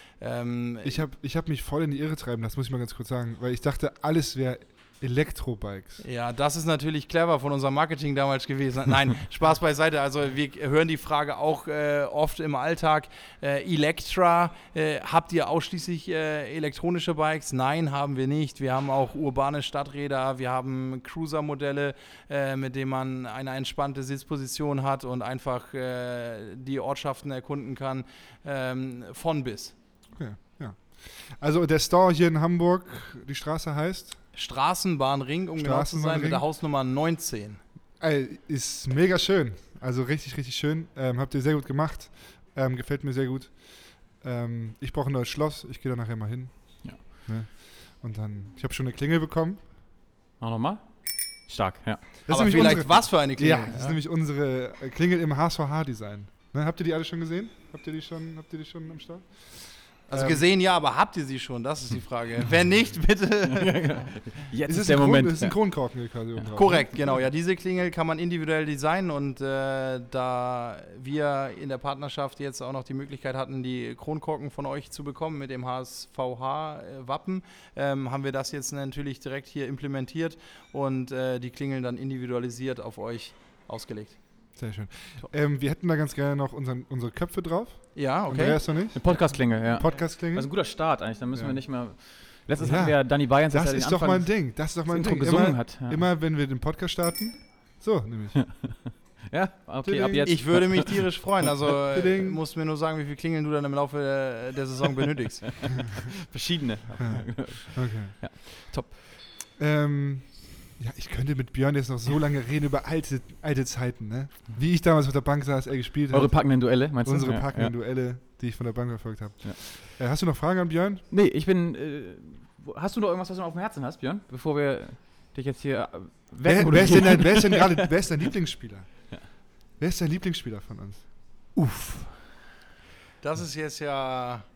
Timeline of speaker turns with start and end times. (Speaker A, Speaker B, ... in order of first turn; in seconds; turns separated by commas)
Speaker A: 0.2-1.0, Speaker B: 0.8-6.0, Speaker A: 6.0-29.8, Speaker B: 30.1-34.2, Speaker A: 34.4-37.6, Speaker B: 35.6-36.4, Speaker B: 38.0-49.6, Speaker C: 50.4-52.0, Speaker B: 52.2-60.4, Speaker A: 52.3-54.0, Speaker A: 60.1-64.0, Speaker C: 63.5-65.6, Speaker B: 64.7-67.0, Speaker A: 66.5-84.2, Speaker B: 84.6-90.6, Speaker A: 88.0-88.8, Speaker C: 89.0-96.0, Speaker B: 91.3-91.6, Speaker B: 92.6-98.6, Speaker C: 98.4-100.9, Speaker B: 99.8-100.3, Speaker A: 100.2-105.7, Speaker B: 101.9-102.4, Speaker C: 105.6-108.9, Speaker B: 107.0-108.3, Speaker B: 109.6-121.0, Speaker C: 116.1-117.8, Speaker C: 121.1-127.9, Speaker B: 126.4-131.1, Speaker A: 131.6-132.1, Speaker A: 133.2-134.4